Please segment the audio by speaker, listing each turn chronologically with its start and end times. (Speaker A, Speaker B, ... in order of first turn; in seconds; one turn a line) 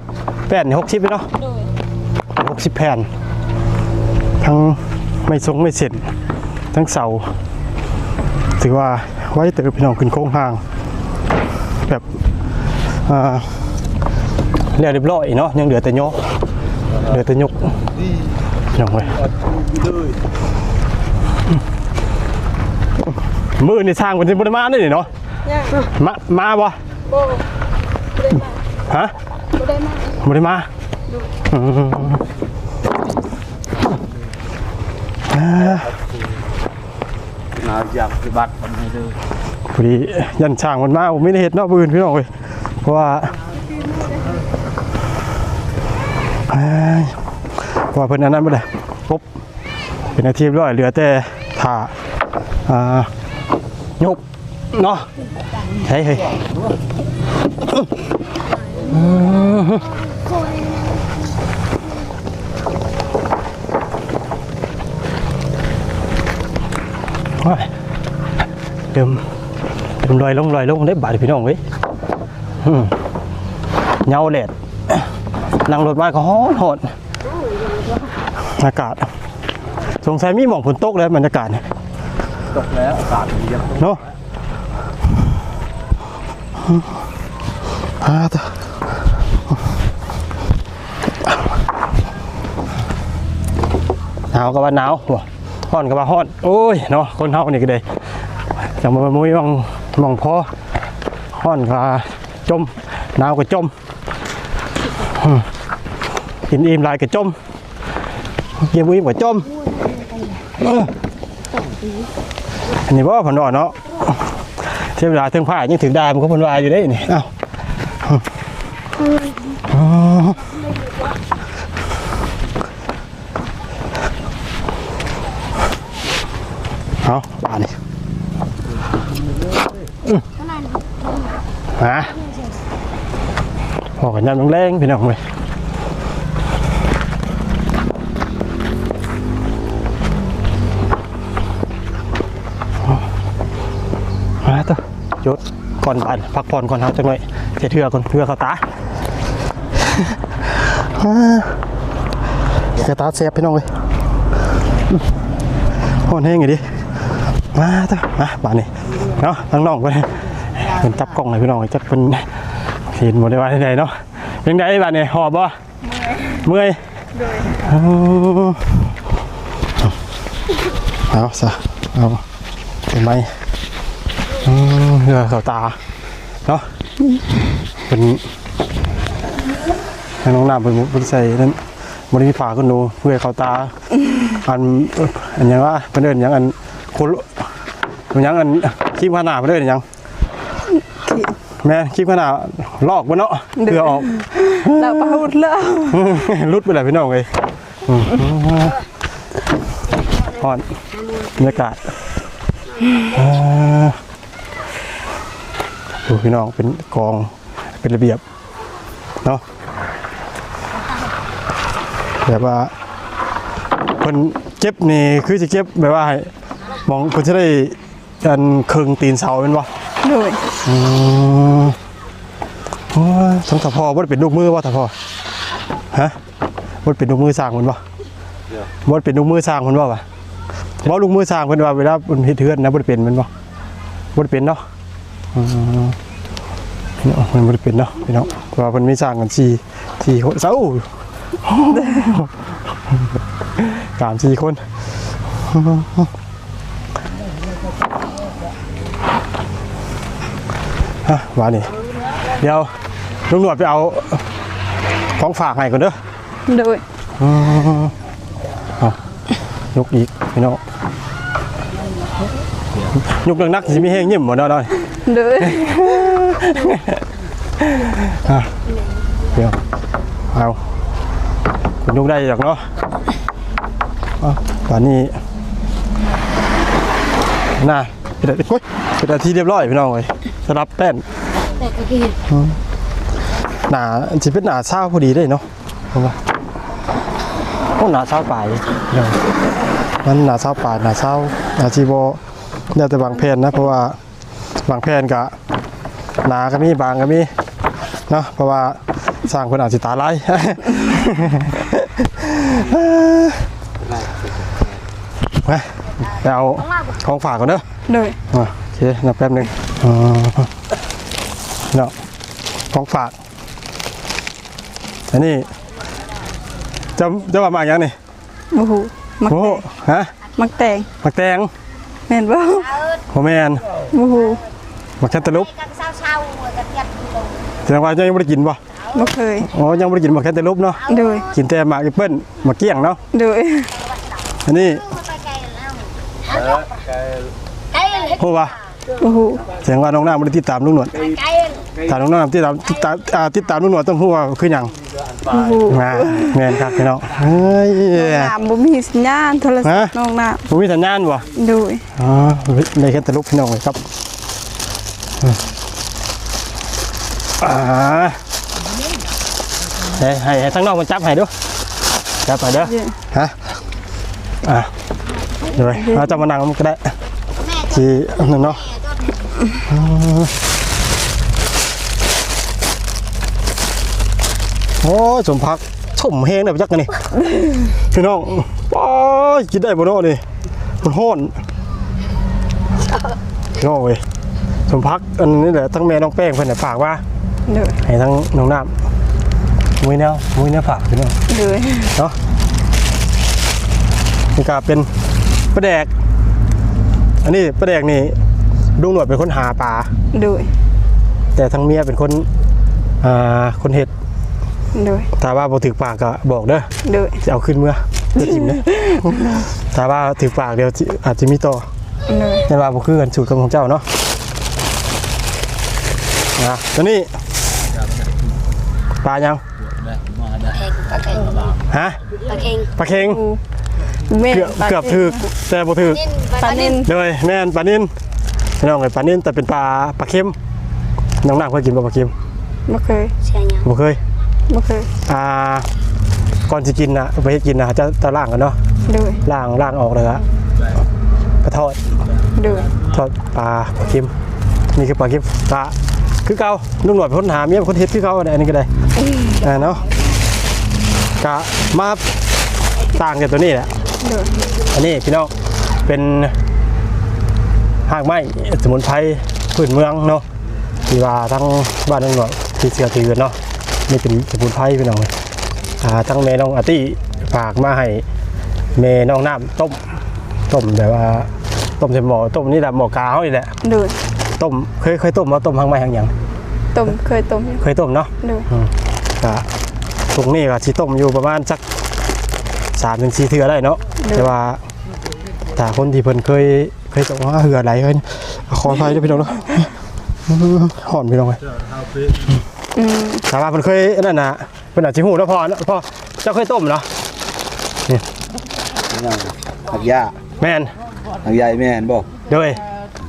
Speaker A: 0.5-1.3
Speaker A: 2.4-3.1
Speaker A: 4.4-6.1
Speaker A: 6.7-7.3
Speaker A: 8.6-10.6
Speaker A: 13.0-13.6
Speaker A: 14.7-16.3
Speaker A: 17.0-17.7
Speaker A: 18.7-19.2
Speaker B: 19.3-20.1
Speaker A: 23.6-25.1
Speaker C: 25.4-25.8
Speaker A: 25.9-26.8
Speaker C: 27.1-27.4
Speaker C: 28.2-28.6
Speaker C: 29.5-30.2
Speaker A: 30.2-30.7
Speaker A: 31.5-32.2
Speaker A: 35.3-35.9
Speaker B: 37.5-39.2
Speaker A: 39.7-43.4
Speaker C: 43.9-44.1
Speaker A: 46.5-47.2
Speaker A: 47.8-49.2
Speaker A: 50.1-51.9
Speaker A: 52.6-53.1
Speaker A: 54.7-55.1
Speaker A: 55.8-56.3
Speaker A: 58.9-59.9
Speaker D: 58.9-59.2
Speaker D: 60.1-61.0
Speaker A: 67.4-67.7
Speaker A: 68.9-69.2
Speaker A: 70.0-71.6
Speaker A: 72.6-72.9
Speaker A: 74.0-75.0
Speaker A: 75.6-76.9
Speaker D: 77.3-77.7
Speaker A: 78.5-79.1
Speaker A: 80.0-81.6
Speaker B: 82.5-83.9
Speaker A: 88.0-88.7
Speaker A: 94.3-97.8
Speaker A: 98.6-100.5
Speaker A: 101.3-103.7
Speaker A: 105.1-105.5
Speaker A: 106.5-107.4
Speaker A: 108.6-109.5
Speaker D: 109.7-110.4
Speaker A: 110.6-110.9
Speaker D: 111.6-112.0
Speaker A: 112.8-114.1
Speaker A: 114.8-117.3
Speaker A: 119.7-120.5
Speaker A: 127.0-127.7
Speaker D: 130.3-131.4
Speaker A: 131.8-132.1
Speaker A: 134.0-135.2
Speaker A: 144.4-148.7
Speaker A: 149.8-151.6
Speaker A: 152.7-153.7
Speaker A: 156.0-156.7
Speaker A: 157.5-162.3
Speaker A: 162.9-165.6
Speaker C: 165.9-166.4
Speaker A: 166.3-166.8
Speaker C: 167.1-167.5
Speaker A: 167.5-168.8
Speaker A: 171.1-172.2
Speaker A: 172.9-173.3
Speaker A: 174.4-175.8
Speaker A: 177.9-178.2
Speaker A: 180.2-181.6
Speaker A: 182.1-183.7
Speaker A: 184.3-187.4
Speaker A: 188.1-189.8
Speaker C: 190.9-191.3
Speaker A: 191.6-195.2
Speaker C: 193.6-196.0
Speaker A: 195.9-197.3
Speaker A: 197.8-198.8
Speaker A: 200.3-200.7
Speaker A: 201.3-201.9
Speaker A: 203.1-204.0
Speaker A: 206.1-208.2
Speaker A: 212.2-212.7
Speaker A: 214.0-216.3
Speaker A: 216.8-219.7
Speaker C: 220.0-220.4
Speaker A: 220.6-221.8
Speaker A: 222.9-224.9
Speaker A: 226.8-227.8
Speaker A: 228.8-230.0
Speaker A: 230.8-233.3
Speaker A: 234.1-234.6
Speaker A: 235.3-236.0
Speaker A: 237.0-240.9
Speaker A: 241.4-242.3
Speaker A: 243.6-244.7
Speaker A: 245.4-246.1
Speaker A: 251.1-251.7
Speaker A: 252.3-252.7
Speaker A: 253.3-254.2
Speaker A: 255.2-256.0
Speaker C: 256.5-256.8
Speaker A: 257.2-257.9
Speaker A: 259.7-260.6
Speaker A: 263.0-264.8
Speaker C: 265.1-266.2
Speaker A: 265.4-267.0
Speaker A: 267.6-268.5
Speaker A: 270.3-270.6
Speaker A: 271.8-272.7
Speaker A: 274.2-275.2
Speaker A: 277.6-281.0
Speaker D: 281.6-282.2
Speaker A: 282.3-282.6
Speaker A: 283.7-286.2
Speaker A: 287.8-289.2
Speaker A: 290.0-292.2
Speaker A: 292.7-294.0
Speaker A: 294.6-295.4
Speaker A: 296.2-297.3
Speaker A: 298.1-303.5
Speaker B: 303.8-304.8
Speaker A: 305.4-307.6
Speaker C: 307.9-308.2
Speaker A: 308.3-310.5
Speaker A: 312.7-313.1
Speaker A: 315.1-315.5
Speaker A: 317.0-317.9
Speaker C: 318.5-319.6
Speaker A: 319.2-320.1
Speaker C: 320.4-320.9
Speaker A: 321.0-321.5
Speaker C: 322.1-322.8
Speaker A: 323.1-323.7
Speaker C: 323.9-324.4
Speaker A: 325.0-325.5
Speaker D: 325.2-327.6
Speaker A: 327.6-328.6
Speaker C: 328.9-329.5
Speaker A: 329.4-333.0
Speaker C: 330.9-331.3
Speaker D: 330.9-331.3
Speaker C: 333.1-333.7
Speaker D: 333.8-336.6
Speaker A: 334.4-334.9
Speaker B: 336.3-337.3
Speaker D: 337.7-338.3
Speaker A: 338.2-338.6
Speaker C: 339.0-339.4
Speaker A: 339.5-341.0
Speaker D: 341.0-341.8
Speaker A: 341.9-344.7
Speaker B: 345.1-345.6
Speaker C: 345.3-346.5
Speaker A: 345.7-348.3
Speaker C: 347.9-350.4
Speaker A: 349.6-349.9
Speaker A: 350.5-351.3
Speaker C: 351.3-351.9
Speaker A: 351.9-353.8
Speaker A: 357.4-358.2
Speaker A: 359.9-361.3
Speaker A: 362.2-363.4
Speaker C: 362.6-362.9
Speaker A: 364.4-364.7
Speaker A: 365.5-366.9
Speaker C: 365.8-366.2
Speaker D: 367.4-369.3
Speaker A: 367.7-368.6
Speaker A: 369.7-370.3
Speaker A: 374.8-377.1
Speaker A: 377.9-380.2
Speaker A: 380.8-381.4
Speaker A: 383.6-384.0
Speaker A: 384.7-387.0
Speaker C: 387.5-387.8
Speaker A: 387.8-388.7
Speaker A: 389.8-391.2
Speaker C: 391.3-391.9
Speaker A: 394.3-394.9
Speaker A: 395.5-395.9
Speaker A: 397.2-398.1
Speaker A: 398.8-399.9
Speaker C: 400.1-400.5
Speaker A: 401.4-402.3
Speaker A: 403.0-403.9
Speaker C: 404.7-405.1
Speaker A: 405.2-406.7
Speaker C: 406.8-407.2
Speaker A: 407.2-411.7
Speaker C: 412.1-412.4
Speaker A: 412.5-413.9
Speaker A: 416.4-417.1
Speaker B: 417.5-418.4
Speaker A: 419.0-419.4
Speaker B: 419.6-420.6
Speaker D: 420.6-421.4
Speaker B: 421.2-421.6
Speaker A: 421.7-422.0
Speaker D: 422.2-422.7
Speaker A: 422.8-423.2
Speaker C: 422.9-423.4
Speaker C: 424.1-425.2
Speaker A: 424.2-426.0
Speaker D: 425.9-426.8
Speaker C: 426.4-426.9
Speaker A: 426.8-427.9
Speaker A: 428.6-430.3
Speaker A: 431.2-432.1
Speaker C: 432.7-433.1
Speaker D: 433.2-433.6
Speaker A: 433.6-434.0
Speaker C: 434.5-434.9
Speaker A: 435.1-435.7
Speaker A: 436.5-438.6
Speaker C: 438.9-439.2
Speaker A: 439.2-440.2
Speaker A: 441.4-441.8
Speaker C: 442.4-442.7
Speaker A: 442.8-444.1
Speaker A: 444.7-448.7
Speaker A: 449.4-449.8
Speaker A: 451.2-452.0
Speaker A: 452.9-453.7
Speaker C: 454.0-454.4
Speaker A: 454.7-455.3
Speaker A: 455.9-456.4
Speaker A: 457.9-460.2
Speaker A: 460.9-465.1
Speaker A: 465.8-468.0
Speaker A: 468.7-469.8
Speaker A: 470.5-473.5
Speaker C: 473.6-473.9
Speaker A: 474.4-476.1
Speaker C: 476.7-477.6
Speaker A: 477.6-479.4
Speaker C: 478.2-478.5
Speaker A: 480.1-481.6
Speaker A: 482.8-484.6
Speaker A: 485.5-489.7
Speaker A: 490.3-491.4
Speaker C: 492.7-493.2
Speaker A: 493.2-496.9
Speaker B: 498.9-500.2
Speaker A: 500.4-500.7
Speaker B: 501.2-502.1
Speaker A: 502.3-502.6